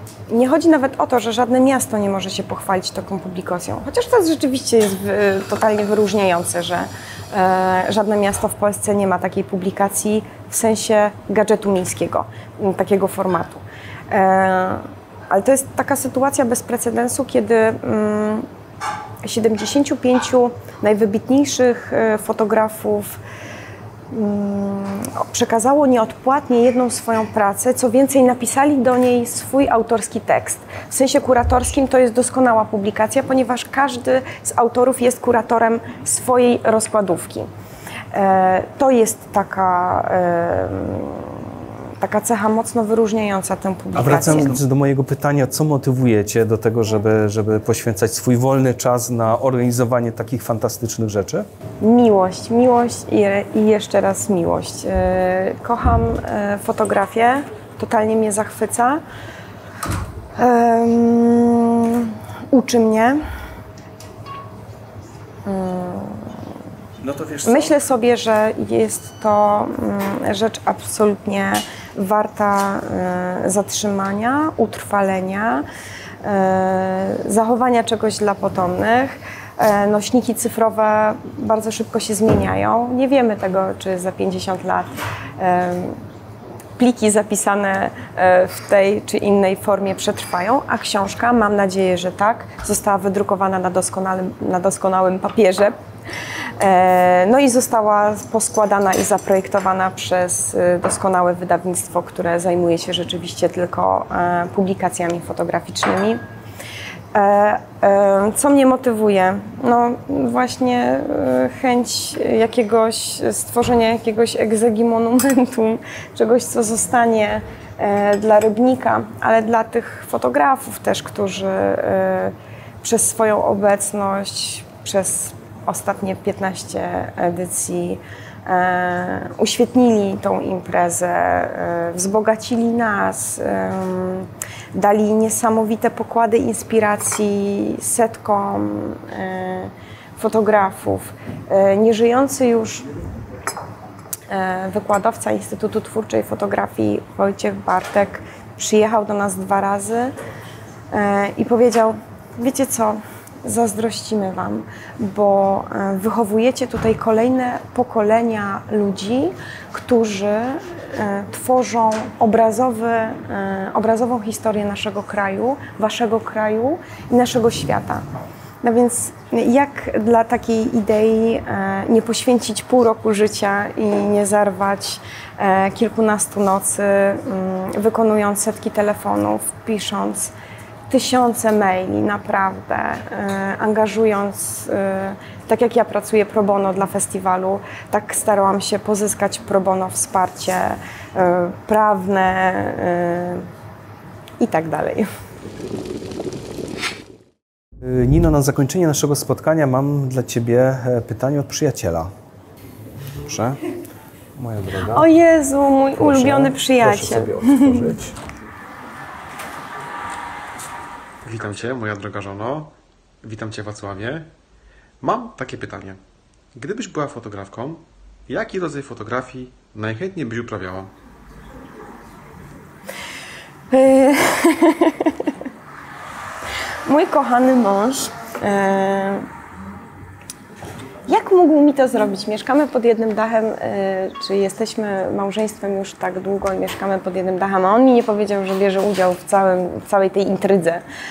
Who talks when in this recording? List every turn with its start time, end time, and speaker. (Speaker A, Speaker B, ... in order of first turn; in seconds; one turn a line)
Speaker A: 0.3-18.4
Speaker A: 19.2-23.2
Speaker A: 24.1-37.5
Speaker A: 38.1-44.6
Speaker B: 43.9-51.5
Speaker A: 51.8-59.0
Speaker A: 60.4-63.2
Speaker A: 65.4-66.5
Speaker B: 67.0-67.7
Speaker A: 67.4-75.6
Speaker A: 76.2-86.0
Speaker A: 86.8-95.7
Speaker A: 96.6-106.2
Speaker A: 107.1-142.9
Speaker A: 144.3-150.1
Speaker A: 150.9-168.0
Speaker A: 168.6-180.3
Speaker A: 180.9-193.4
Speaker A: 194.4-195.1
Speaker B: 197.8-202.1
Speaker B: 203.2-203.6
Speaker B: 204.3-205.1
Speaker A: 204.8-207.9
Speaker B: 206.0-208.1
Speaker C: 211.2-214.3
Speaker C: 215.0-216.0
Speaker C: 216.5-220.9
Speaker A: 223.7-225.3
Speaker A: 226.8-229.2
Speaker A: 231.1-240.8